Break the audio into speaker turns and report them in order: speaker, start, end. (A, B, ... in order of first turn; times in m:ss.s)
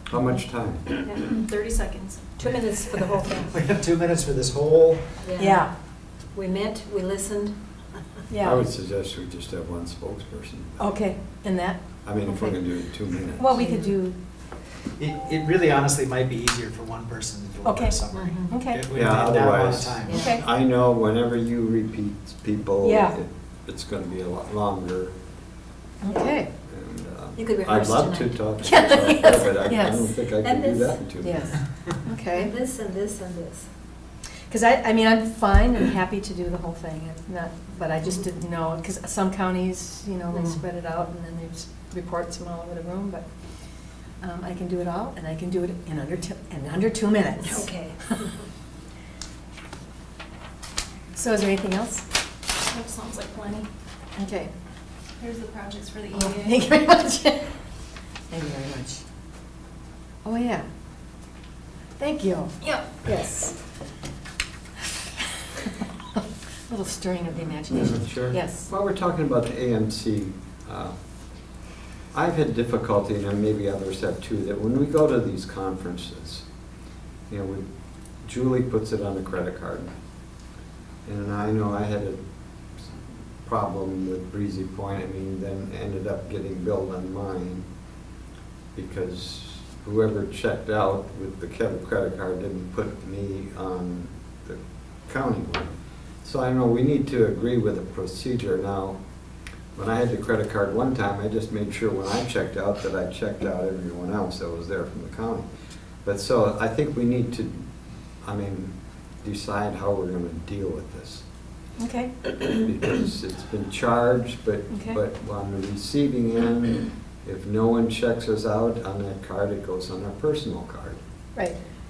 0:00.1-0:00.8 A
0:01.0-0:02.3 B
0:02.4-0:03.5 C
0:03.5-0:05.1 D
0:05.2-0:05.6 C
0:05.4-0:05.7 E
0:06.3-0:07.6 C
0:08.3-0:08.6 E
0:08.4-0:10.8 A
0:10.8-0:12.6 E
0:12.0-0:13.6 A
0:13.4-0:14.2 E
0:13.6-0:13.9 C
0:15.0-0:20.2 D
0:17.6-0:18.8 E
0:18.1-0:18.6 C
0:18.9-0:25.1 A
0:20.1-0:20.4 E
0:22.8-0:23.2 E
0:26.0-0:26.5 E
0:26.7-0:31.5 A
0:27.4-0:28.4 C
0:28.6-0:30.1 E
0:30.4-0:31.0 C
0:31.2-0:32.5 E
0:32.3-0:33.7 C
0:34.5-0:43.2 E
0:40.3-0:40.6 C
0:44.2-0:47.7 E
0:47.4-0:48.3 C
0:51.1-0:52.0 E
0:52.6-0:53.7 B
0:54.2-0:54.5 E
0:55.2-0:56.6 B
0:56.1-0:57.5 E
0:58.3-0:59.0 E
1:00.2-1:00.7 E
1:02.0-1:03.6 E
1:06.7-1:08.7 E
1:07.7-1:10.9 A
1:12.1-1:16.4 A
1:17.3-1:17.6 A
1:18.2-1:19.9 A
1:21.0-1:22.2 A
1:22.8-1:27.6 A
1:28.7-1:39.0 A
1:39.7-1:45.5 A
1:46.0-1:47.7 A
1:48.2-1:51.2 A
1:51.8-1:52.1 E
1:52.4-2:01.0 A
1:54.7-1:55.0 E